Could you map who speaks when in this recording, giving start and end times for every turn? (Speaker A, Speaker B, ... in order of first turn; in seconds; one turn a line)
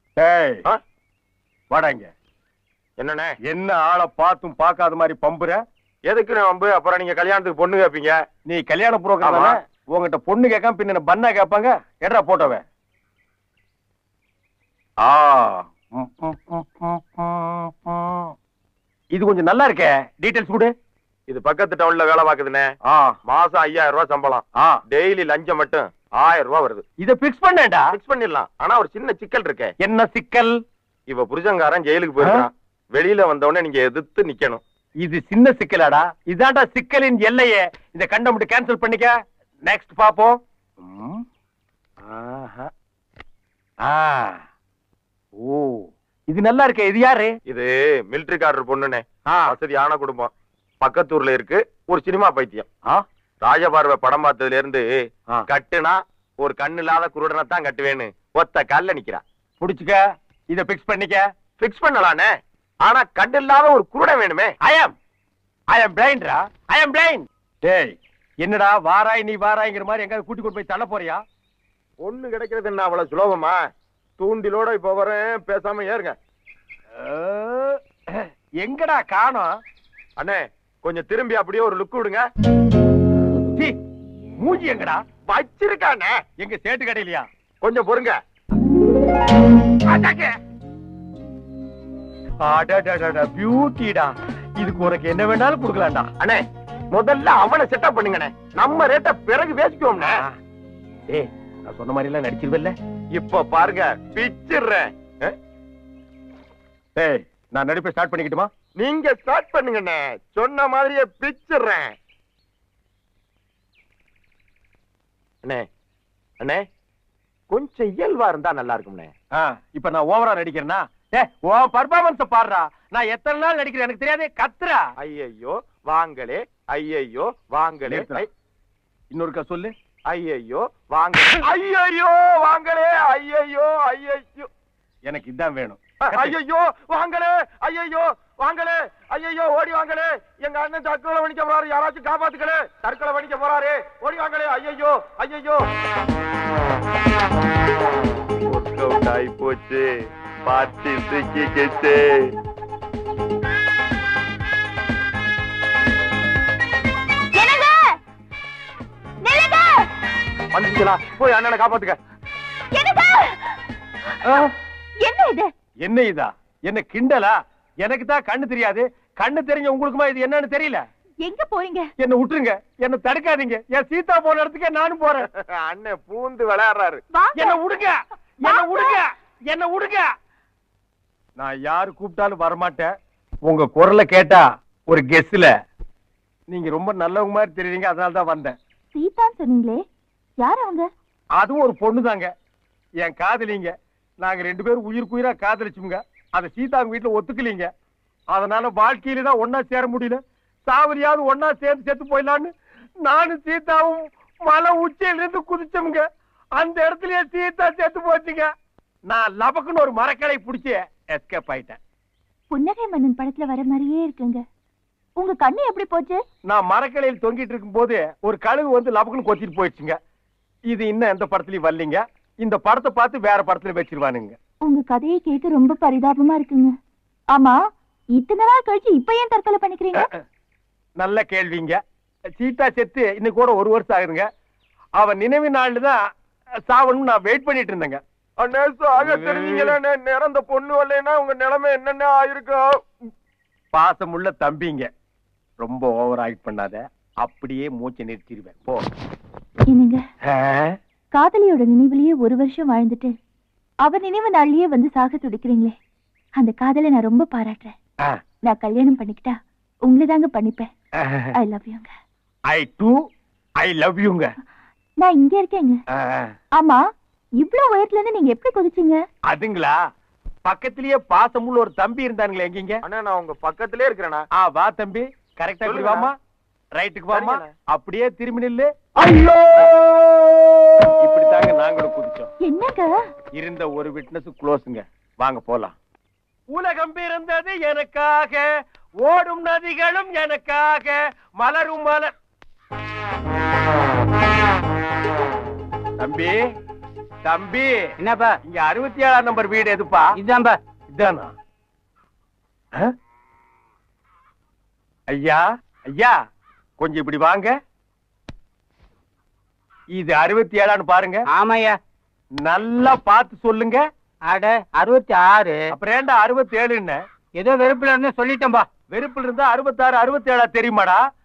Speaker A: 0.2-0.6
Speaker A: 1.7-2.1
Speaker B: 3.0-3.3
Speaker A: 3.4-5.6
Speaker B: 6.1-8.2
Speaker A: 8.5-12.6
Speaker B: 9.2-9.6
Speaker A: 15.0-18.3
Speaker A: 19.1-20.7
Speaker B: 21.3-22.7
Speaker A: 22.9-23.1
Speaker B: 23.2-26.8
Speaker A: 27.0-27.9
Speaker B: 27.9-29.7
Speaker A: 29.8-30.5
Speaker B: 31.1-34.6
Speaker A: 32.2-32.5
Speaker A: 35.0-39.1
Speaker A: 39.6-41.2
Speaker A: 42.0-42.7
Speaker A: 43.8-44.4
Speaker A: 45.4-47.4
Speaker B: 47.5-52.7
Speaker A: 49.2-49.5
Speaker B: 53.4-54.9
Speaker B: 55.5-59.2
Speaker A: 59.6-60.0
Speaker A: 60.5-61.2
Speaker B: 61.6-62.3
Speaker B: 62.8-64.5
Speaker A: 64.6-64.9
Speaker A: 65.7-71.2
Speaker B: 72.0-73.6
Speaker B: 74.2-76.2
Speaker A: 77.0-79.5
Speaker B: 80.2-82.2
Speaker A: 84.4-85.0
Speaker B: 85.3-86.1
Speaker A: 86.4-87.2
Speaker B: 87.6-88.2
Speaker A: 89.9-90.3
Speaker A: 92.5-96.1
Speaker B: 96.2-100.2
Speaker A: 100.0-100.3
Speaker A: 101.1-102.7
Speaker B: 103.1-105.3
Speaker A: 107.0-108.5
Speaker B: 108.8-111.9
Speaker B: 117.5-119.1
Speaker A: 119.4-124.8
Speaker B: 125.0-128.3
Speaker A: 127.9-128.2
Speaker A: 129.1-129.7
Speaker B: 130.1-134.5
Speaker A: 135.1-136.3
Speaker B: 136.1-145.6
Speaker B: 148.5-149.9
Speaker B: 150.4-152.3
Speaker C: 157.3-158.0
Speaker C: 159.2-159.9
Speaker B: 160.5-162.0
Speaker C: 162.7-163.5
Speaker A: 164.2-164.5
Speaker C: 165.0-165.5
Speaker A: 165.8-170.8
Speaker C: 171.2-171.9
Speaker A: 172.0-175.3
Speaker B: 175.3-177.0
Speaker C: 177.1-177.6
Speaker A: 177.3-180.1
Speaker C: 178.4-179.0
Speaker A: 181.4-182.9
Speaker A: 183.4-185.5
Speaker A: 186.5-188.5
Speaker C: 188.9-189.8
Speaker C: 190.4-190.9
Speaker A: 191.4-192.3
Speaker A: 193.0-197.7
Speaker A: 198.3-202.5
Speaker A: 203.0-206.0
Speaker A: 206.6-208.5
Speaker A: 209.1-211.8
Speaker C: 212.5-214.4
Speaker C: 215.2-216.2
Speaker A: 216.5-219.9
Speaker A: 220.7-224.3
Speaker C: 224.6-226.7
Speaker C: 228.1-230.1
Speaker A: 231.0-231.8
Speaker A: 232.4-234.2
Speaker A: 235.0-236.0
Speaker A: 236.7-238.0
Speaker B: 238.4-242.8
Speaker A: 239.0-239.8
Speaker A: 243.7-244.9
Speaker A: 245.6-248.8
Speaker C: 249.7-250.0
Speaker A: 250.3-250.7
Speaker C: 251.1-253.1
Speaker C: 253.8-255.8
Speaker C: 256.4-257.7
Speaker C: 258.4-260.7
Speaker A: 261.0-261.3
Speaker C: 261.3-261.9
Speaker A: 262.5-262.9
Speaker A: 263.6-264.3
Speaker C: 265.0-265.8
Speaker A: 265.9-266.3
Speaker C: 267.4-269.0
Speaker A: 269.3-269.8
Speaker A: 270.4-272.8
Speaker B: 272.8-274.3
Speaker A: 274.3-276.1
Speaker B: 275.6-276.1
Speaker A: 276.7-278.9
Speaker B: 277.1-277.5
Speaker B: 279.1-279.8
Speaker A: 281.0-282.3
Speaker C: 282.4-282.9
Speaker A: 283.4-285.8
Speaker A: 286.5-288.5
Speaker A: 289.0-292.1
Speaker A: 296.0-296.4
Speaker A: 297.2-297.9
Speaker D: 298.0-298.4
Speaker A: 298.4-300.1
Speaker D: 300.1-300.6
Speaker A: 300.9-301.3
Speaker A: 305.1-306.1
Speaker A: 306.8-307.5
Speaker A: 309.9-311.2
Speaker D: 311.3-311.8
Speaker A: 312.4-313.8
Speaker D: 314.3-315.7
Speaker A: 315.7-317.0
Speaker D: 317.4-318.6
Speaker A: 318.9-321.0